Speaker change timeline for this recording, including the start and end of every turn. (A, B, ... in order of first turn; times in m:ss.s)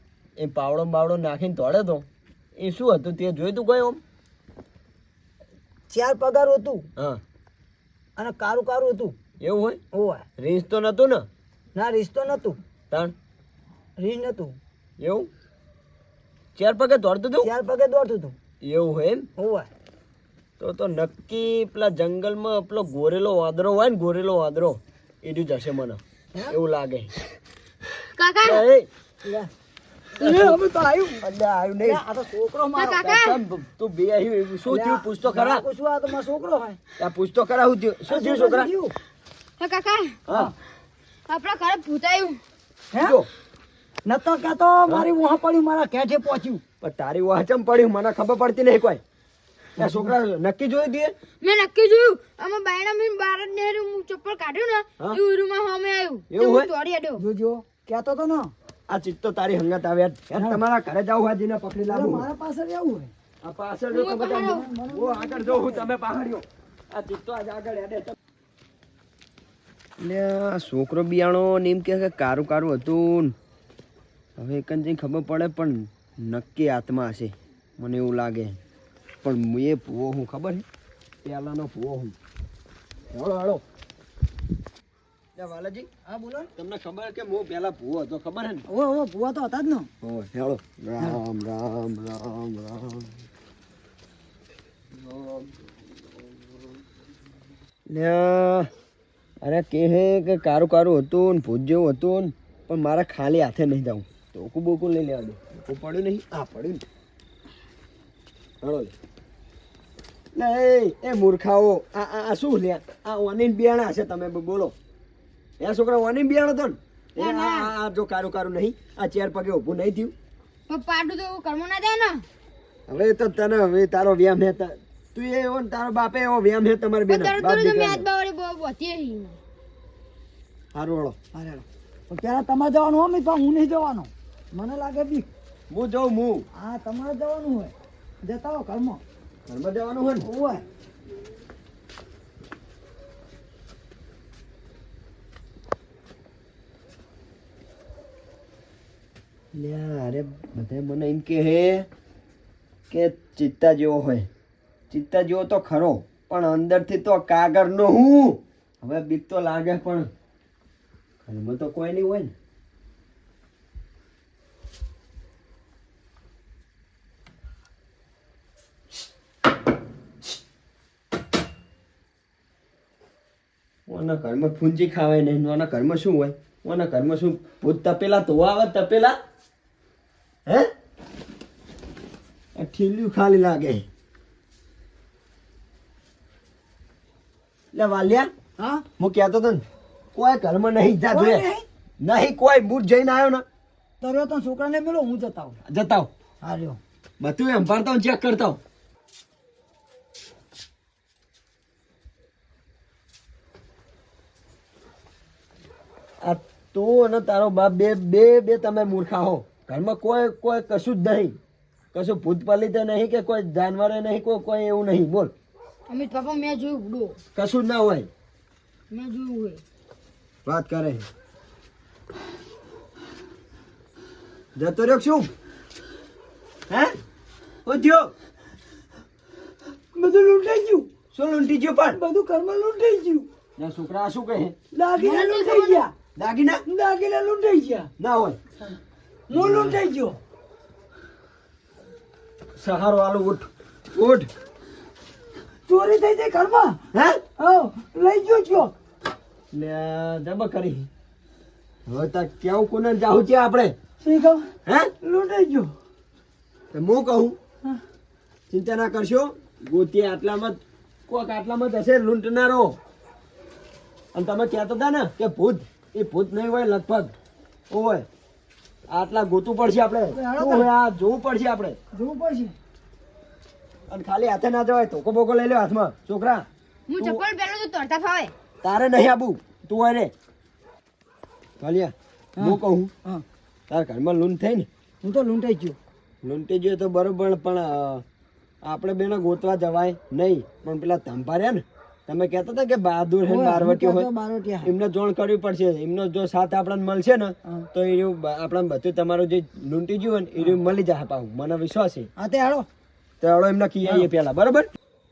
0:00.4-0:02.0 A
0:02.6-0:04.0 A
0:05.9-0:06.9 B
0:08.2-0:09.2 B
0:09.4-0:09.8 A
0:09.9-0:10.2 B
0:10.4-0:11.2 A
0:11.7-0:12.6 B
0:14.0-0:14.6 B
0:15.0-0:15.3 A
0:16.6-0:17.5 A
0:17.4-0:18.4 B
0:18.6-0:19.3 A
0:19.4-0:19.7 B
0:20.6-0:27.1 A
0:28.1-0:28.6 C
0:28.4-0:28.9 A
0:29.2-0:29.5 B
0:30.2-0:31.2 B
0:30.2-0:30.6 A
0:31.2-0:32.0 A
0:31.8-0:33.0 B
0:32.8-0:33.4 C
0:32.9-0:35.6 A
0:34.7-0:36.8 B
0:37.0-0:38.7 A
0:38.1-0:38.9 B
0:39.6-0:40.2 C
0:40.3-0:40.5 A
0:41.3-0:42.4 C
0:42.9-0:43.2 B
0:43.0-0:43.3 A
0:44.0-0:46.6 B
0:46.8-0:49.0 A
0:49.8-0:51.1 A
0:49.8-0:50.1 B
0:51.4-0:57.2 C
0:56.3-0:56.7 A
0:57.2-0:58.5 B
0:58.9-1:02.3 A
1:00.3-1:00.6 B
1:01.9-1:03.1 B
1:03.4-1:08.1 A
1:03.9-1:04.7 C
1:04.4-1:05.9 B
1:10.0-1:13.4 A
1:14.4-1:18.6 A
1:19.2-1:20.6 A
1:21.2-1:22.1 A
1:23.1-1:23.6 A
1:25.4-1:25.9 A
1:26.1-1:26.5 B
1:26.6-1:28.6 A
1:28.7-1:29.9 B
1:30.0-1:33.1 A
1:34.9-1:35.5 A
1:37.9-1:38.7 A
1:39.4-1:46.8 A
1:48.6-1:48.9 A
1:50.3-1:54.7 A
1:55.6-2:00.1 A
1:57.2-1:57.7 C
2:00.7-2:02.2 C
2:02.9-2:08.0 A
2:07.1-2:09.4 C
2:10.7-2:11.2 A
2:11.3-2:15.3 B
2:15.7-2:16.4 A
2:16.6-2:19.0 B
2:19.5-2:20.2 A
2:20.2-2:20.6 B
2:29.5-2:31.9 A
2:32.9-2:34.3 A
2:34.9-2:40.1 A
2:41.2-2:42.3 A
2:53.9-2:59.2 A
3:02.6-3:03.8 A
3:07.7-3:08.3 A
3:08.6-3:08.8 B
3:09.0-3:09.6 A
3:10.1-3:11.4 A
3:11.1-3:11.6 B
3:12.0-3:13.4 A
3:14.0-3:15.6 B
3:15.6-3:16.1 A
3:16.4-3:16.8 B
3:17.2-3:18.6 A
3:26.2-3:31.4 A
3:31.9-3:35.3 A
3:35.9-3:37.2 C
3:37.3-3:38.1 A
3:38.9-3:39.6 C
3:40.4-3:41.1 A
3:44.6-3:45.3 A
3:47.6-3:48.1 A
3:49.9-3:50.9 B
3:51.1-3:52.0 A
3:51.9-3:53.3 B
3:53.6-3:54.6 A
3:54.7-3:55.9 B
3:55.0-3:55.8 C
3:56.1-3:56.6 A
3:56.6-3:57.9 B
3:58.0-3:58.4 A
3:59.3-4:00.2 B
3:59.3-3:59.8 A
4:02.6-4:04.3 A
4:05.7-4:06.8 B
4:06.9-4:07.2 A
4:07.4-4:08.7 B
4:09.5-4:10.9 A
4:11.8-4:13.7 A
4:14.0-4:14.5 B
4:14.6-4:14.9 A
4:15.0-4:15.7 B
4:16.7-4:17.4 A
4:18.5-4:22.8 A
4:24.1-4:27.1 A
4:27.7-4:28.0 A
4:28.9-4:31.8 A
4:30.1-4:30.7 B
4:31.9-4:32.5 B
4:33.9-4:36.4 A
4:36.9-4:38.3 C
4:37.0-4:37.2 A
4:38.6-4:40.1 A
4:41.6-4:42.9 A
4:42.4-4:43.2 B
4:43.7-4:44.7 A
4:45.0-4:45.8 B
4:46.2-4:48.0 A
4:48.6-4:54.1 A
4:53.2-4:54.7 B
4:54.6-5:02.1 A
5:02.2-5:02.6 B
5:03.2-5:04.7 A